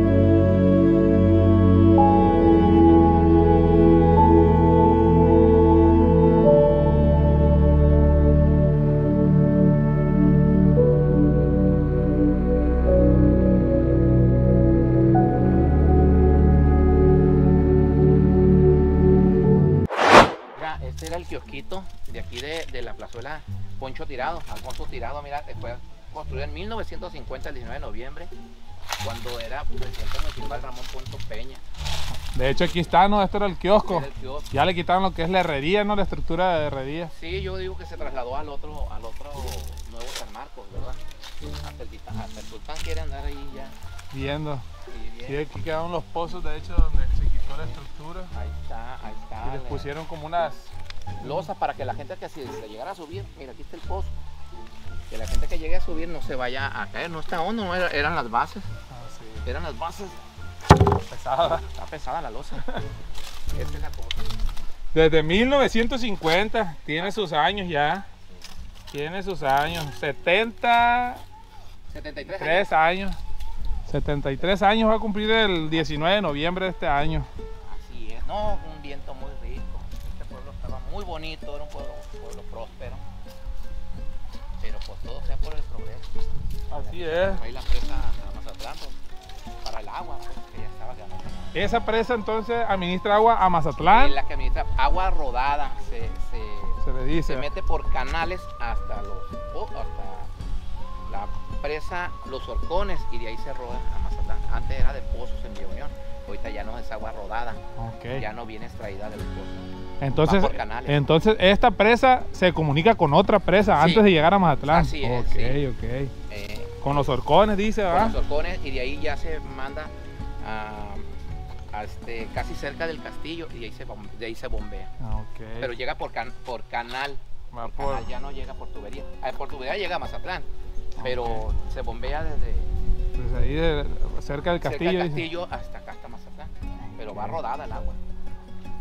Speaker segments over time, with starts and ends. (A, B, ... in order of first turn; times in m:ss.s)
0:20.6-0:28.3 A
0:29.0-0:31.6 A
0:32.3-0:37.1 B
0:33.8-0:34.5 A
0:37.1-0:41.0 A
0:41.5-0:43.8 A
0:44.1-0:44.6 B
0:44.9-0:45.5 A
0:45.3-0:48.3 B
0:47.4-0:47.8 A
0:48.3-0:49.9 A
0:49.4-0:50.7 B
0:51.2-0:54.2 A
0:55.1-0:58.7 A
0:58.9-0:59.5 B
0:59.4-1:00.2 A
1:01.1-1:01.7 B
1:01.4-1:02.7 A
1:03.5-1:04.3 A
1:04.9-1:08.1 B
1:08.9-1:11.2 B
1:11.9-1:12.7 A
1:12.4-1:13.2 B
1:13.9-1:17.3 B
1:17.7-1:23.0 A
1:24.6-1:26.2 A
1:26.7-1:27.4 B
1:26.7-1:29.0 A
1:29.6-1:31.8 A
1:31.5-1:34.2 B
1:33.8-1:40.3 A
1:36.8-1:37.5 B
1:41.1-1:47.6 A
1:47.8-1:48.2 B
1:48.1-1:51.1 A
1:50.0-1:56.1 B
1:53.8-1:54.1 A
1:54.6-1:55.6 A
1:56.3-1:57.2 A
1:56.8-1:58.2 B
1:57.9-2:01.1 A
2:01.7-2:04.9 A
2:05.0-2:05.7 B
2:05.6-2:10.5 A
2:07.5-2:08.1 B
2:11.0-2:11.5 B
2:11.0-2:12.7 A
2:13.2-2:15.3 B
2:14.6-2:18.0 A
2:16.8-2:17.4 B